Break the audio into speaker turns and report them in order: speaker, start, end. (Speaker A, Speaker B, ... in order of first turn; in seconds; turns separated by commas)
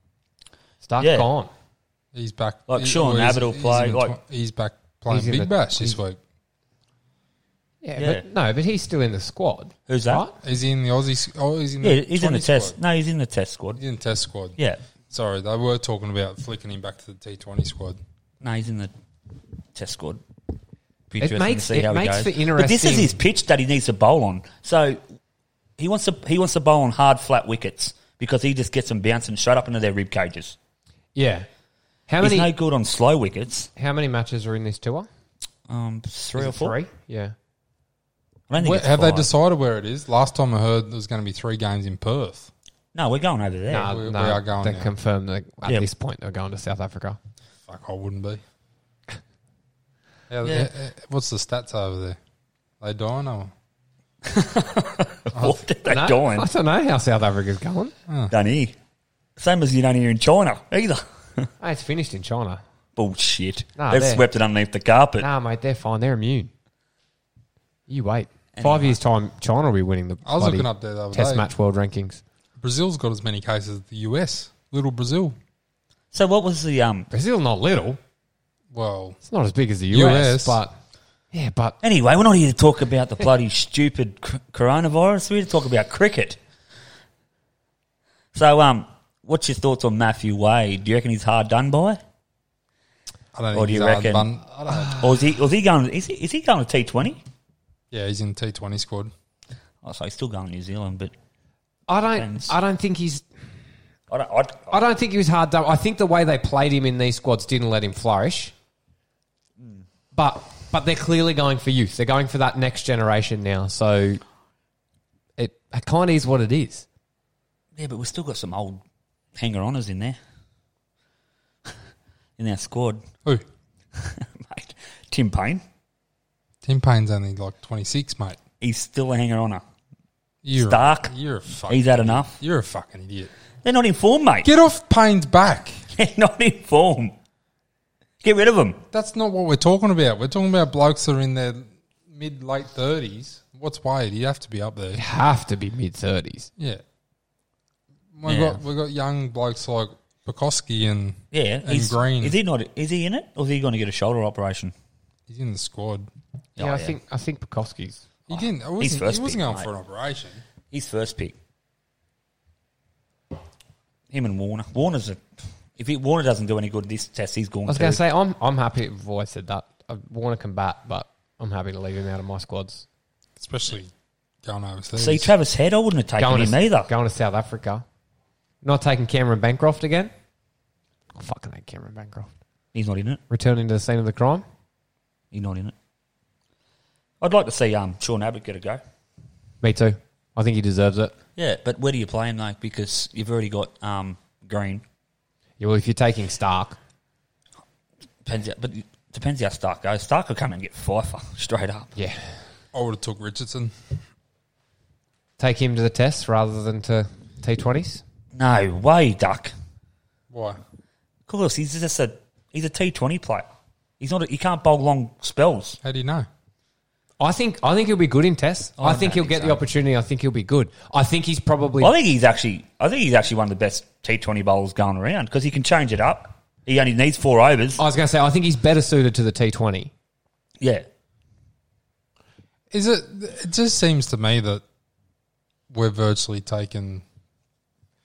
Speaker A: 0.8-1.5, Speaker B: 1.0-1.3, Speaker C: 2.1-6.2, Speaker B: 2.7-4.2, Speaker A: 5.1-6.0, Speaker A: 7.8-10.3, Speaker B: 8.0-8.2, Speaker B: 9.9-10.2, Speaker C: 10.4-12.8, Speaker B: 11.8-13.8, Speaker C: 13.8-14.6, Speaker C: 15.1-18.0, Speaker B: 18.4-18.9, Speaker B: 19.7-20.2, Speaker B: 21.1-25.0, Speaker A: 21.2-23.1, Speaker B: 25.8-30.6, Speaker A: 31.1-31.4, Speaker A: 32.1-32.5, Speaker B: 32.2-33.7, Speaker A: 33.8-35.1, Speaker B: 35.7-36.8, Speaker A: 36.4-37.3, Speaker B: 38.5-39.3, Speaker C: 38.6-42.5, Speaker B: 42.9-43.9, Speaker A: 43.7-47.2, Speaker C: 43.8-44.9, Speaker C: 47.7-48.4, Speaker C: 50.3-52.2, Speaker B: 50.4-50.7, Speaker C: 52.8-53.5, Speaker B: 54.2-56.5, Speaker C: 55.3-55.6, Speaker A: 55.8-57.9, Speaker C: 58.1-58.3, Speaker B: 58.3-58.7, Speaker B: 59.4-61.5, Speaker A: 61.6-62.6, Speaker B: 63.0-65.2, Speaker A: 63.8-64.2, Speaker A: 65.2-66.5, Speaker A: 67.9-72.2, Speaker B: 68.5-69.0, Speaker C: 70.2-71.5, Speaker C: 72.6-75.3, Speaker B: 76.1-77.1, Speaker A: 77.1-78.0, Speaker C: 78.7-79.2, Speaker A: 79.2-80.7, Speaker C: 79.9-80.6, Speaker A: 81.3-81.8, Speaker B: 81.8-86.4, Speaker B: 88.3-92.0, Speaker C: 93.3-94.9, Speaker B: 93.5-94.3, Speaker B: 94.9-97.2, Speaker C: 97.9-99.1, Speaker B: 99.8-101.1, Speaker A: 101.9-103.2, Speaker B: 102.2-102.5, Speaker B: 104.1-104.8, Speaker A: 104.7-108.5, Speaker B: 109.6-109.8, Speaker A: 110.1-114.2, Speaker A: 115.4-116.8, Speaker B: 117.8-118.8, Speaker B: 119.3-120.2, Speaker B: 122.4-123.0, Speaker B: 123.9-125.6, Speaker C: 126.6-128.4, Speaker B: 128.6-129.6, Speaker C: 130.4-133.3, Speaker B: 130.5-131.1, Speaker B: 131.7-132.4, Speaker B: 133.6-134.5, Speaker C: 134.4-135.8, Speaker B: 135.9-137.1, Speaker B: 138.2-138.8, Speaker C: 138.9-145.0, Speaker A: 144.9-146.5, Speaker C: 146.6-146.8, Speaker C: 148.1-152.4, Speaker B: 148.3-148.6, Speaker B: 151.3-154.7, Speaker C: 155.3-156.1, Speaker B: 156.6-157.0, Speaker A: 156.6-158.0, Speaker C: 158.3-160.4, Speaker B: 158.8-159.7, Speaker B: 160.7-161.4, Speaker B: 164.1-165.2, Speaker B: 165.8-168.0, Speaker A: 167.7-172.8, Speaker C: 173.4-173.9, Speaker C: 174.4-175.3, Speaker B: 174.9-176.9, Speaker A: 176.2-177.8, Speaker A: 178.6-180.1, Speaker A: 181.1-182.3, Speaker B: 182.7-183.2, Speaker A: 183.3-184.4, Speaker B: 185.3-185.7, Speaker B: 187.2-188.8, Speaker A: 189.6-191.1, Speaker B: 191.4-194.8, Speaker A: 195.6-196.8, Speaker B: 198.2-201.9, Speaker A: 201.9-202.2, Speaker C: 202.7-203.7, Speaker A: 205.4-208.0, Speaker B: 208.3-209.5, Speaker C: 210.3-210.6, Speaker B: 211.3-213.5, Speaker B: 214.0-215.8, Speaker C: 215.8-216.3, Speaker A: 217.2-221.9, Speaker B: 218.8-219.6, Speaker B: 221.8-227.8, Speaker A: 227.8-229.9, Speaker B: 230.6-230.8, Speaker C: 232.7-234.6, Speaker C: 235.7-237.0